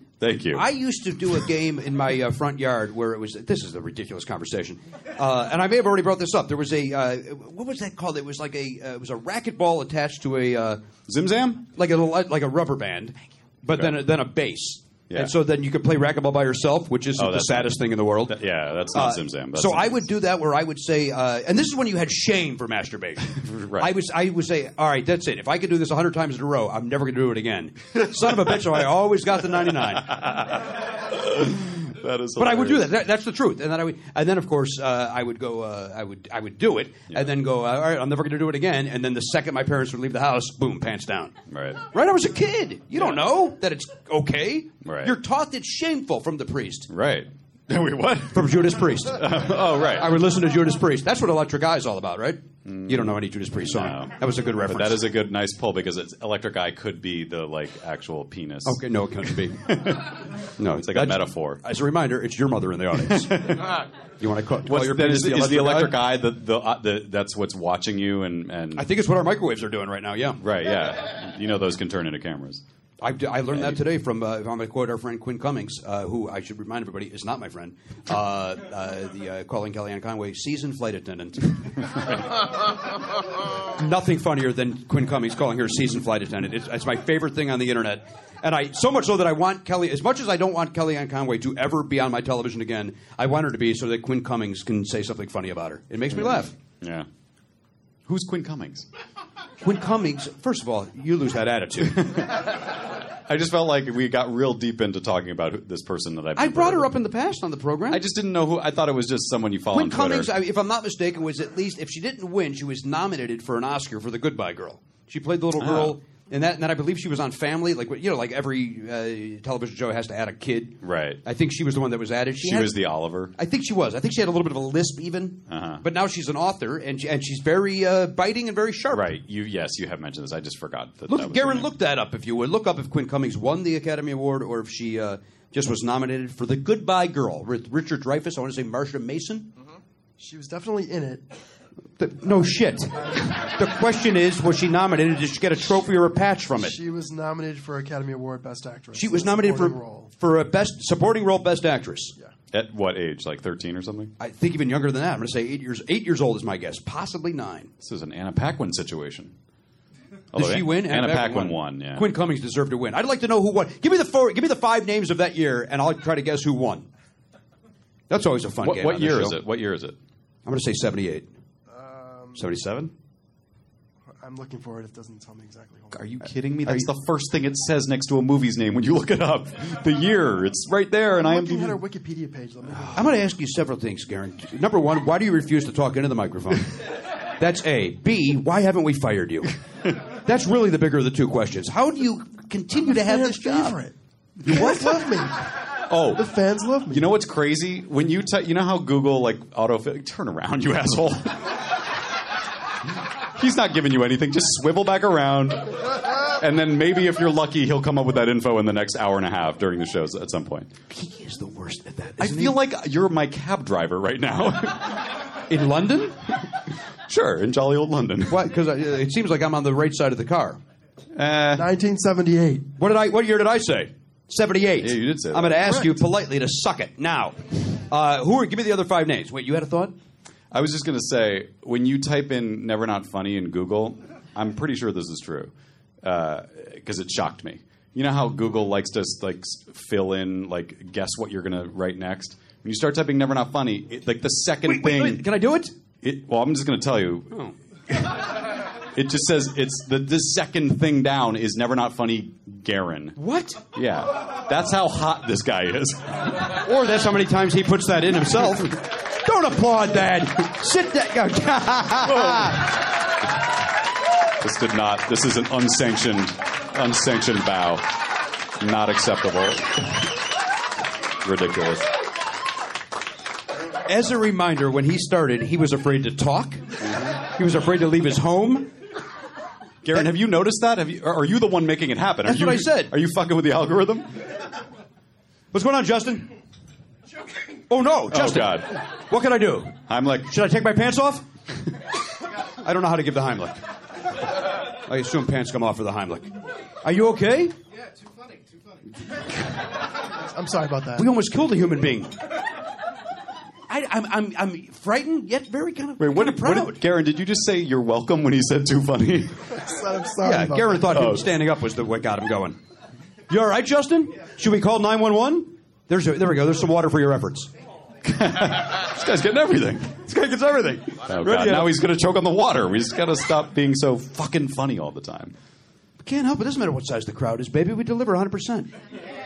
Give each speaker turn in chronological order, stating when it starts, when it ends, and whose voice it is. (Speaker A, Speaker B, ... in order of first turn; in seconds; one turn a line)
Speaker A: 0.2-0.7
Speaker B: 0.5-10.8
Speaker A: 11.1-11.6
Speaker B: 11.7-18.4
Speaker A: 13.7-14.0
Speaker A: 15.1-15.3
Speaker A: 17.1-20.1
Speaker B: 18.9-30.2
Speaker A: 23.3-23.9
Speaker A: 29.9-33.0
Speaker B: 32.4-41.3
Speaker A: 41.5-41.8
Speaker B: 41.9-46.9
Speaker A: 44.8-45.1
Speaker A: 46.9-50.2
Speaker B: 48.3-55.0
Speaker A: 52.6-61.6
Speaker B: 58.6-59.9
Speaker B: 60.6-66.0
Speaker A: 63.1-63.8
Speaker A: 64.6-68.9
Speaker B: 68.8-70.4
Speaker A: 70.4-72.6
Speaker B: 73.0-82.4
Speaker A: 73.5-73.8
Speaker B: 83.6-96.5
Speaker A: 96.1-97.1
Speaker A: 98.0-98.8
Speaker B: 99.6-102.4
Speaker A: 102.0-102.6
Speaker A: 103.2-106.9
Speaker B: 106.3-108.0
Speaker A: 107.9-110.3
Speaker B: 109.7-129.2
Speaker A: 115.6-116.0
Speaker A: 120.8-121.2
Speaker A: 122.4-123.3
Speaker A: 125.5-125.8
Speaker A: 128.9-131.7
Speaker B: 131.1-139.5
Speaker C: 140.2-141.2
Speaker B: 142.0-146.8
Speaker C: 146.5-150.1
Speaker B: 148.9-152.1
Speaker A: 152.5-154.1
Speaker B: 154.2-157.7
Speaker A: 157.8-159.3
Speaker A: 160.3-162.1
Speaker B: 160.3-166.9
Speaker B: 168.1-169.4
Speaker A: 168.6-170.0
Speaker B: 170.4-171.3
Speaker C: 171.7-172.4
Speaker B: 172.3-172.9
Speaker C: 174.2-176.3
Speaker A: 175.9-181.8
Speaker B: 176.6-176.9
Speaker C: 181.0-183.3
Speaker B: 182.9-193.8
Speaker C: 192.8-195.5
Speaker A: 194.4-195.0
Speaker B: 194.5-195.1
Speaker A: 195.9-196.3
Speaker C: 196.1-197.2
Speaker A: 196.9-201.8
Speaker A: 203.3-210.7
Speaker B: 210.9-212.6
Speaker A: 212.2-215.2
Speaker B: 215.5-216.2
Speaker A: 217.1-218.4
Speaker B: 218.3-220.6
Speaker A: 221.1-221.7
Speaker C: 221.5-222.7
Speaker B: 222.8-229.9
Speaker A: 224.8-226.0
Speaker A: 230.5-245.3
Speaker B: 244.6-245.7
Speaker A: 246.0-247.3
Speaker A: 247.9-256.4
Speaker B: 253.2-253.6
Speaker B: 256.5-262.8
Speaker A: 262.1-262.8
Speaker A: 264.4-267.9
Speaker A: 268.6-270.1
Speaker A: 271.2-271.9
Speaker B: 273.9-278.7
Speaker A: 279.8-284.3
Speaker B: 282.2-282.9
Speaker B: 285.5-286.3
Speaker B: 287.7-291.3
Speaker A: 288.1-288.8
Speaker A: 289.9-290.3
Speaker B: 292.6-293.6
Speaker B: 294.7-297.5
Speaker C: 300.2-301.1
Speaker B: 300.9-302.2
Speaker B: 303.7-306.8
Speaker A: 306.0-309.6
Speaker C: 309.6-311.1
Speaker B: 310.2-312.6
Speaker A: 310.9-311.3
Speaker B: 313.3-317.5
Speaker A: 318.0-320.0
Speaker B: 320.0-321.8
Speaker A: 321.0-325.3
Speaker B: 326.0-328.7